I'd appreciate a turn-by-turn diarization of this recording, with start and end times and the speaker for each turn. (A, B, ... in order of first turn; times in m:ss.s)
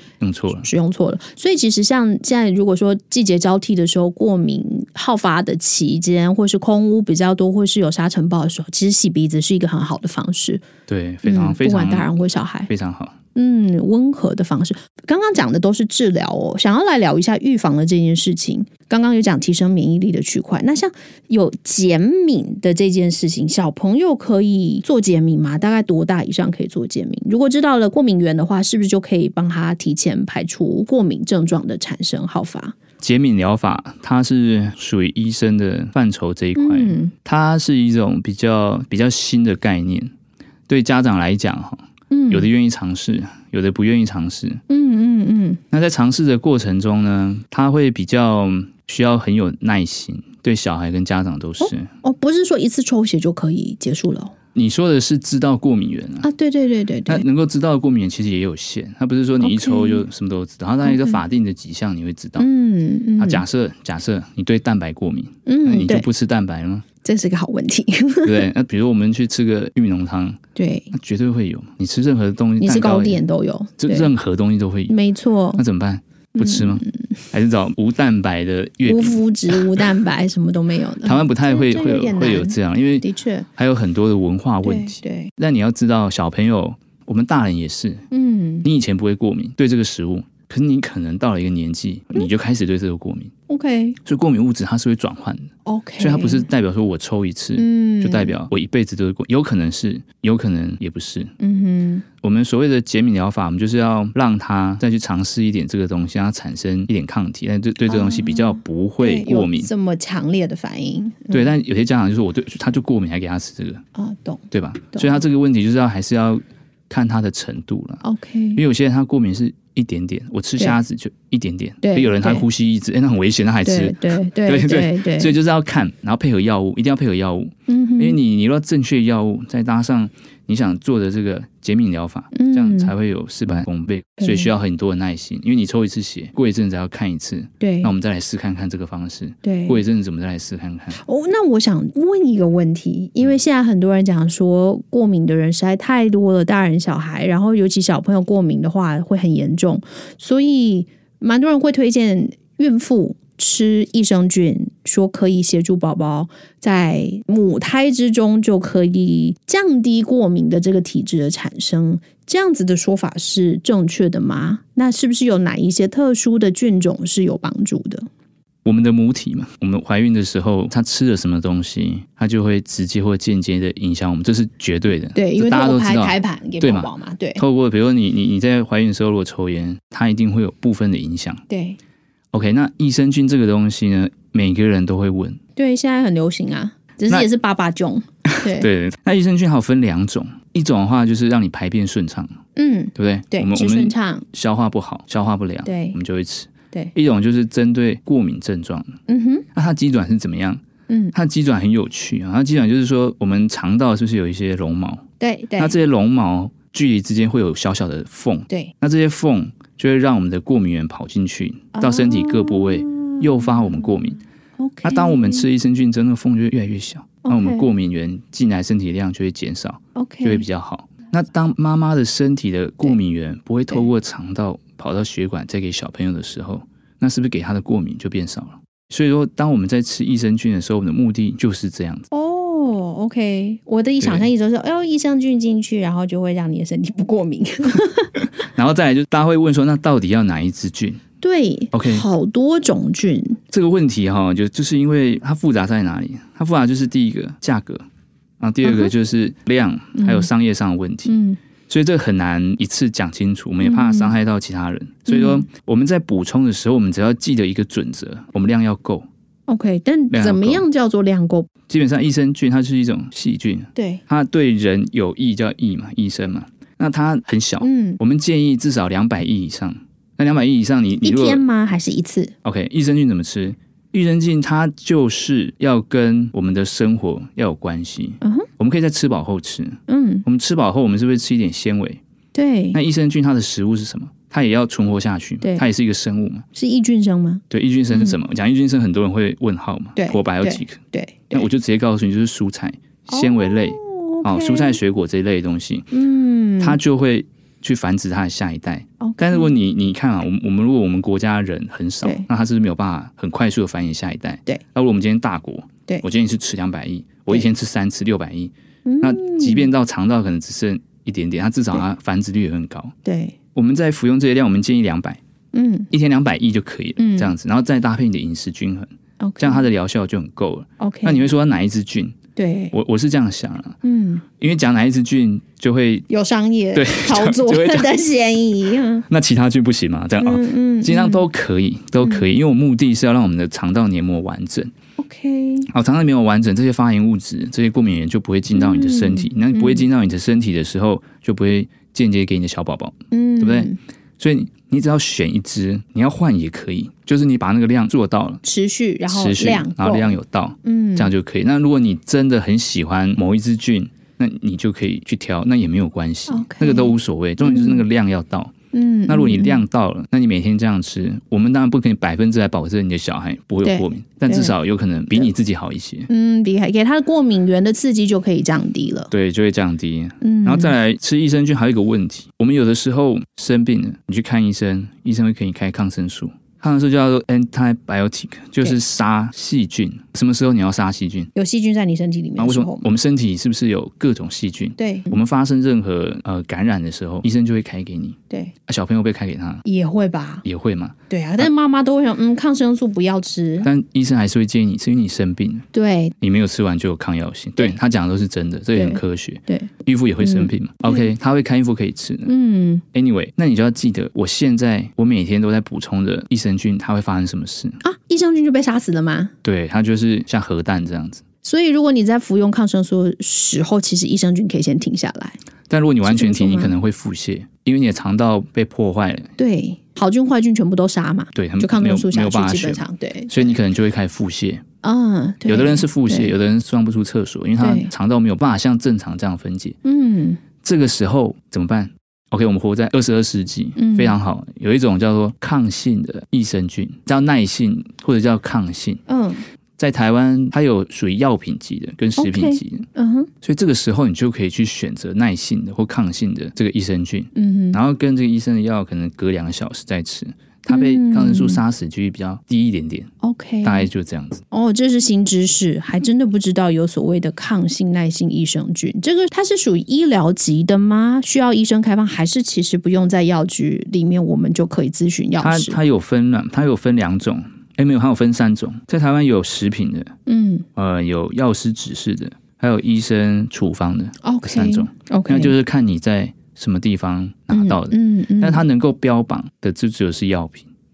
0:00.2-0:00.7 A
0:00.6-0:10.6 B
0:10.9-0:13.2 A
0:11.2-0:12.7 B
0:13.4-0:32.8 B
0:33.0-0:40.1 A
0:36.6-0:37.1 B
0:40.7-0:44.6 A
0:42.1-0:42.5 B
0:44.7-0:45.6 B
0:45.7-0:51.9 A
0:51.6-0:54.3 B
0:54.5-0:56.3 A
0:56.2-0:57.2 B
0:57.1-1:02.5 A
0:59.4-1:00.0 B
1:00.8-1:01.2 B
1:02.4-1:03.4 B
1:03.2-1:06.8 A
1:05.5-1:06.1 B
1:07.0-1:08.5 B
1:08.2-1:10.4 A
1:10.6-1:10.9 B
1:10.9-1:13.2 A
1:12.6-1:14.1 B
1:13.8-1:14.9 A
1:14.9-1:15.6 B
1:15.5-1:19.9 A
1:16.4-1:17.0 B
1:18.8-1:23.5 B
1:21.0-1:23.0 A
1:23.6-1:28.0 A
1:24.6-1:25.3 B
1:28.1-1:28.7 B
1:28.6-1:33.3 A
1:33.5-1:34.0 B
1:34.0-1:41.3 A
1:35.6-1:36.5 B
1:37.6-1:38.4 B
1:41.4-1:42.0 B
1:42.2-1:49.7 A
1:47.9-1:51.5 B
1:51.3-1:53.8 A
1:53.9-1:55.2 B
1:54.5-1:58.0 A
1:58.0-1:58.6 B
1:58.6-2:21.0 A
2:01.8-2:02.4 B
2:03.6-2:05.4 B
2:07.7-2:08.2 B
2:12.3-2:12.9 B
2:14.2-2:14.5 B
2:17.6-2:17.9 B
2:19.4-2:19.8 B
2:20.9-2:48.1 B
2:48.6-3:01.4 A
2:55.1-2:57.4 B
3:01.5-3:01.8 B
3:02.3-3:05.4 A
3:05.6-3:08.7 B
3:08.2-3:12.4 A
3:12.6-3:14.2 B
3:12.9-3:18.9 A
3:15.6-3:16.0 B
3:19.1-3:19.5 B
3:19.5-3:20.6 A
3:20.9-3:21.1 B
3:21.1-3:25.0 A
3:25.2-3:25.8 B
3:25.6-3:34.2 A
3:31.7-3:33.9 B
3:34.6-3:35.5 B
3:34.8-3:52.1 A
3:37.2-3:37.7 B
3:39.9-3:40.4 B
3:52.1-3:58.1 B
3:54.0-3:54.3 A
3:58.4-4:01.0 A
4:01.2-4:03.4 B
4:01.7-4:02.0 A
4:03.5-4:07.8 A
4:08.4-4:11.2 A
4:08.6-4:08.9 B
4:10.0-4:10.3 B
4:11.0-4:11.4 B
4:11.7-4:19.1 A
4:13.6-4:14.2 B
4:15.1-4:15.5 B
4:19.5-4:21.5 B
4:20.1-4:20.6 A
4:21.7-4:31.4 A
4:23.8-4:24.0 B
4:27.6-4:28.0 B
4:31.0-4:32.3 B
4:32.4-4:42.0 A
4:38.2-4:38.5 B
4:39.9-4:40.2 B
4:42.3-4:42.8 B
4:42.7-4:46.5 A
4:46.5-4:48.2 B
4:47.5-4:55.9 A
4:50.0-4:51.5 B
4:53.1-4:54.8 B
4:55.9-4:56.8 B
4:56.6-5:13.0 A
4:59.0-4:59.6 B
5:08.8-5:09.7 B
5:13.0-5:13.4 B
5:13.5-5:15.2 A
5:15.5-5:15.9 B
5:15.9-5:22.2 A
5:17.0-5:17.3 B
5:19.2-5:19.7 B
5:20.8-5:21.3 B
5:22.4-5:22.7 B
5:22.7-5:23.8 A
5:23.8-5:24.2 B
5:24.4-5:26.0 A
5:26.1-5:29.0 B
5:26.7-5:27.9 A
5:29.1-5:34.7 A
5:30.2-5:31.3 B
5:35.0-5:35.7 B
5:35.7-5:48.4 A
5:38.5-5:39.8 B
5:43.1-5:43.8 B
5:48.4-5:51.1 B
5:49.1-5:58.5 A
5:56.3-5:57.8 B
5:58.7-5:59.6 B
5:59.1-6:06.1 A
6:03.6-6:04.6 B
6:06.1-6:09.1 B
6:09.1-6:21.3 A
6:10.2-6:10.7 B
6:21.3-6:22.9 B
6:22.4-6:29.6 A
6:24.8-6:25.2 B
6:29.6-6:30.4 B
6:30.4-6:31.5 A
6:31.1-6:33.7 B
6:33.6-6:35.6 A
6:35.7-6:36.2 B
6:36.2-6:42.3 A
6:38.7-6:41.1 B
6:42.2-6:42.8 B
6:42.9-6:47.8 A
6:47.8-6:49.3 B
6:49.4-6:51.2 A
6:51.4-6:55.4 B
6:55.7-6:59.3 A
6:56.0-6:56.7 B
6:59.4-7:03.6 B
7:01.3-7:04.6 A
7:04.8-7:06.3 B
7:05.5-7:09.8 A
7:07.6-7:07.9 B
7:09.8-7:10.4 B
7:10.6-7:19.0 A
7:13.8-7:14.2 B
7:19.1-7:19.4 B
7:19.8-7:22.9 A
7:22.2-7:23.3 B
7:23.4-7:33.1 A
7:27.3-7:27.8 B
7:30.7-7:31.6 B
7:33.2-7:33.9 B
7:33.6-7:34.4 A
7:34.5-7:45.8 B
7:45.4-7:50.1 A
7:50.2-7:50.7 B
7:50.8-8:00.7 A
7:54.2-7:55.5 B
7:57.5-7:58.6 B